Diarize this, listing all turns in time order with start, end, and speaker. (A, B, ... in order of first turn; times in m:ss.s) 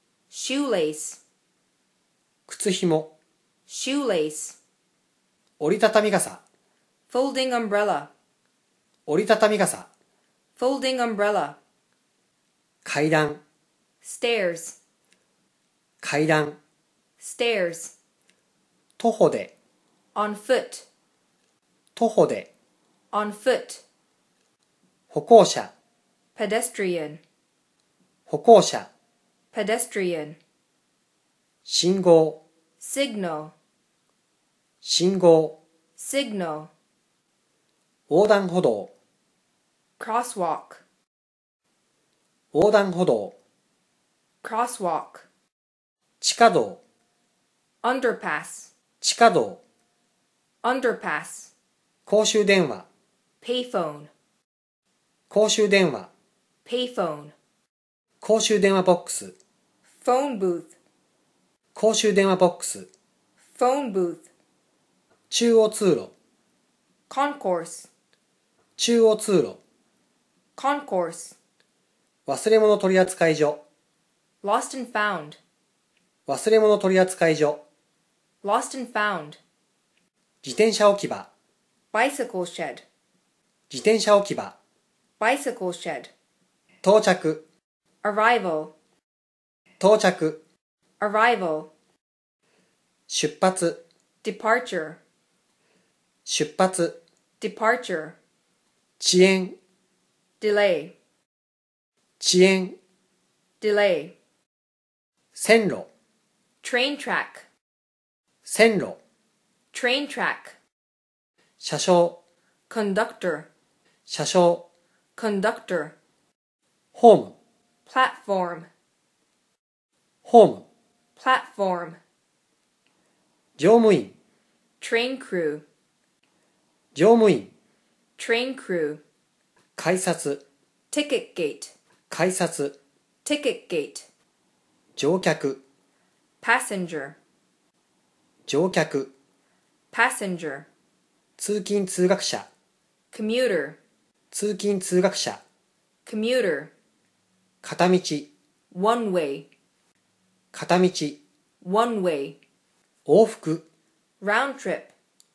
0:00.3-0:01.2 A
0:02.5-0:03.1 B
0:03.7-0:04.6 A
0:05.6-0:06.4 B
0:07.1-0:08.1 A
0:09.1-0:09.9 B
0:10.6-0:11.6 A
0:12.8-0:13.4 B
0:14.0-0:14.8 A
0:16.0-0:16.6 B
0:17.2-0:17.9 A
0:19.0-0:19.5 B
0:20.1-0:20.9 A
0:22.0-0:22.5 B
0:23.1-0:23.8 A
0:25.1-0:25.7 B
0:26.4-0:27.2 A
0:28.3-0:28.9 B
0:29.5-0:30.4 A
0:31.6-0:32.4 B
0:32.8-0:33.5 A
0:34.8-0:35.6 B
0:36.0-0:36.7 A
0:38.1-0:38.9 B
0:40.0-0:40.8 A
0:42.5-0:43.4 B
0:44.4-0:45.3 A
0:46.2-0:46.8 B
0:47.8-0:48.7 A
0:49.0-0:49.6 B
0:50.6-0:51.5 A
0:52.0-0:52.9 B
0:53.4-0:54.1 A
0:55.3-0:56.1 B
0:56.6-0:57.3 A
0:58.2-0:59.4 B
1:00.0-1:00.7 A
1:01.8-1:02.9 B
1:03.5-1:04.3 A
1:05.3-1:06.1 B
1:07.1-1:07.9 A
1:08.8-1:09.6 B
1:10.6-1:11.4 A
1:12.2-1:13.6 B
1:14.4-1:15.4 A
1:16.3-1:17.6 B
1:18.4-1:19.4 A
1:20.4-1:21.3 B
1:21.9-1:22.8 A
1:23.7-1:24.6 B
1:25.2-1:26.1 A
1:26.8-1:27.4 B
1:28.0-1:28.7 A
1:29.8-1:30.4 B
1:31.0-1:31.7 A
1:33.1-1:33.8 B
1:34.2-1:35.0 A
1:36.2-1:37.0 B
1:37.4-1:38.2 A
1:39.0-1:39.6 B
1:40.4-1:40.9 A
1:42.2-1:42.8 B
1:43.6-1:44.1 A
1:45.3-1:45.9 B
1:46.6-1:47.5 A
1:48.4-1:49.0 B
1:49.7-1:50.6 A
1:51.6-1:52.2 B
1:52.7-1:53.5 A
1:54.1-1:54.7 B
1:55.2-1:56.0 A
1:56.9-1:57.4 B
1:57.9-1:58.7 A
2:00.2-2:00.6 B
2:01.2-2:02.0 A
2:03.6-2:04.1 B
2:04.8-2:05.6 A
2:06.9-2:07.5 B
2:08.2-2:09.0 A
2:09.8-2:10.4 B
2:10.9-2:11.7 A
2:12.1-2:12.8 B
2:13.2-2:14.1 A
2:15.0-2:15.6 B
2:16.4-2:17.2 A
2:18.5-2:19.1 B
2:19.9-2:20.7 A
2:21.4-2:22.5 B
2:23.1-2:23.8 A
2:24.3-2:25.4 B
2:26.0-2:26.7 A
2:27.6-2:28.3 B
2:28.7-2:29.5 A
2:30.5-2:31.2 B
2:31.6-2:32.4 A
2:33.0-2:33.6 B
2:34.2-2:34.9 A